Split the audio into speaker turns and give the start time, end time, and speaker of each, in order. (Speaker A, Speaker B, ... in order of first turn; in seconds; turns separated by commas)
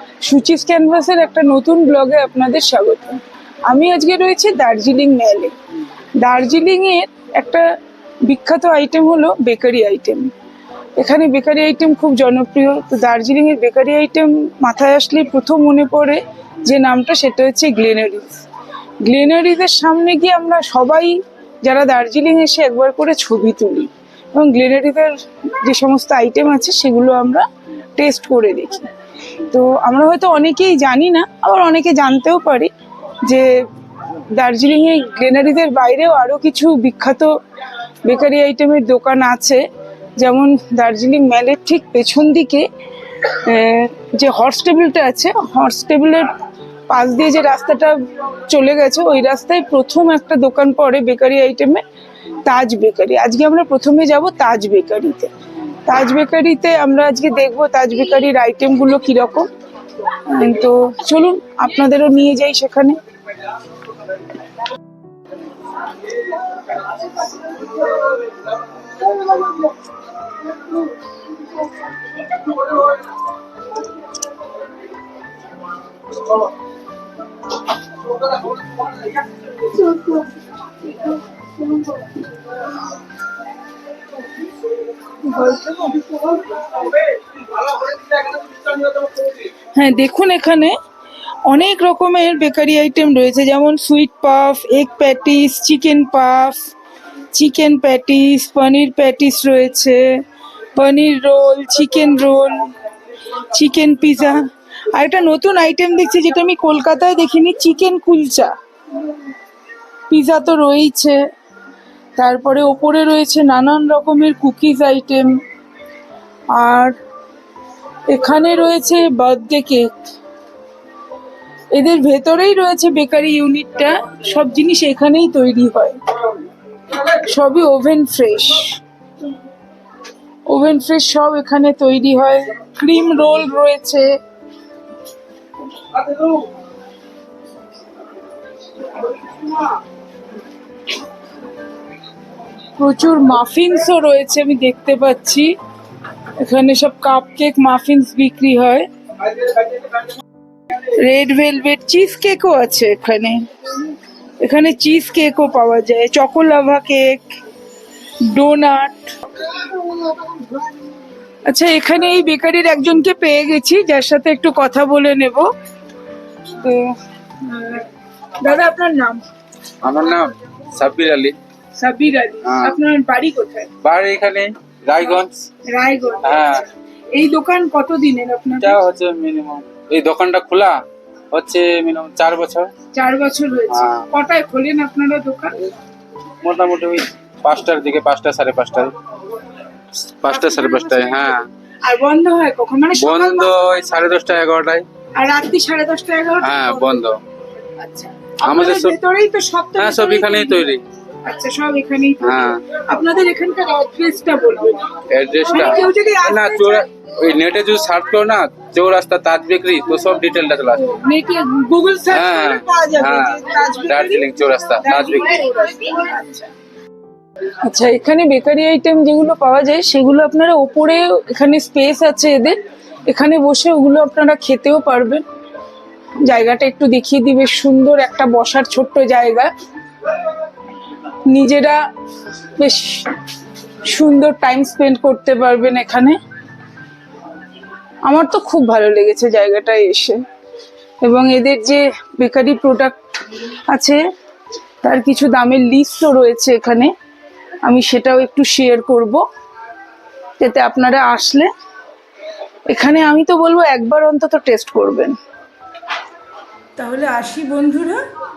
Speaker A: 0.2-5.5, Speaker A: 6.2-7.7, Speaker A: 8.2-10.3, Speaker A: 11.0-18.5, Speaker A: 19.0-27.4, Speaker A: 28.0-28.9, Speaker A: 29.4-32.7, Speaker A: 33.2-33.6, Speaker A: 34.3-37.3, Speaker A: 38.0-39.6, Speaker A: 40.2-42.6, Speaker A: 43.2-46.3, Speaker A: 46.9-51.8, Speaker A: 52.4-55.3, Speaker A: 55.9-59.5, Speaker A: 60.1-63.0, Speaker A: 79.6-82.2, Speaker A: 85.2-86.6, Speaker A: 89.7-90.7, Speaker A: 91.4-96.7, Speaker A: 97.3-100.1, Speaker A: 100.7-102.7, Speaker A: 103.5-108.5, Speaker A: 110.1-111.2, Speaker A: 112.2-115.4, Speaker A: 116.5-117.0, Speaker A: 118.1-119.9, Speaker A: 121.7-126.0, Speaker A: 126.9-128.8, Speaker A: 130.5-134.1, Speaker A: 142.8-145.5, Speaker A: 146.4-148.9, Speaker A: 150.8-153.5, Speaker A: 154.4-157.3, Speaker A: 158.2-159.1, Speaker A: 161.5-165.5, Speaker A: 166.5-167.9, Speaker A: 168.4-169.2, Speaker B: 169.8-171.3, Speaker A: 171.8-173.7, Speaker B: 172.4-172.8, Speaker B: 173.8-175.4, Speaker A: 175.7-178.8, Speaker B: 176.2-176.6, Speaker B: 178.6-180.8, Speaker B: 181.3-182.7, Speaker A: 182.9-185.7, Speaker B: 183.7-184.1, Speaker B: 186.4-188.9, Speaker B: 190.2-191.5, Speaker A: 190.3-193.8, Speaker B: 192.9-194.8, Speaker A: 195.2-197.0, Speaker B: 196.4-197.2, Speaker A: 197.8-200.7, Speaker B: 198.4-199.0, Speaker B: 199.8-200.8, Speaker A: 201.2-206.9, Speaker B: 202.2-202.6, Speaker B: 205.1-210.9, Speaker A: 210.7-216.5, Speaker B: 212.1-215.4, Speaker A: 217.6-225.2, Speaker A: 226.2-229.5, Speaker A: 231.2-231.8, Speaker A: 232.6-233.1, Speaker A: 233.8-236.2, Speaker A: 238.1-240.2, Speaker A: 241.0-242.9, Speaker A: 243.7-244.0, Speaker A: 244.8-246.9, Speaker A: 247.6-249.2, Speaker A: 250.4-251.5, Speaker A: 252.7-255.1, Speaker A: 256.8-258.0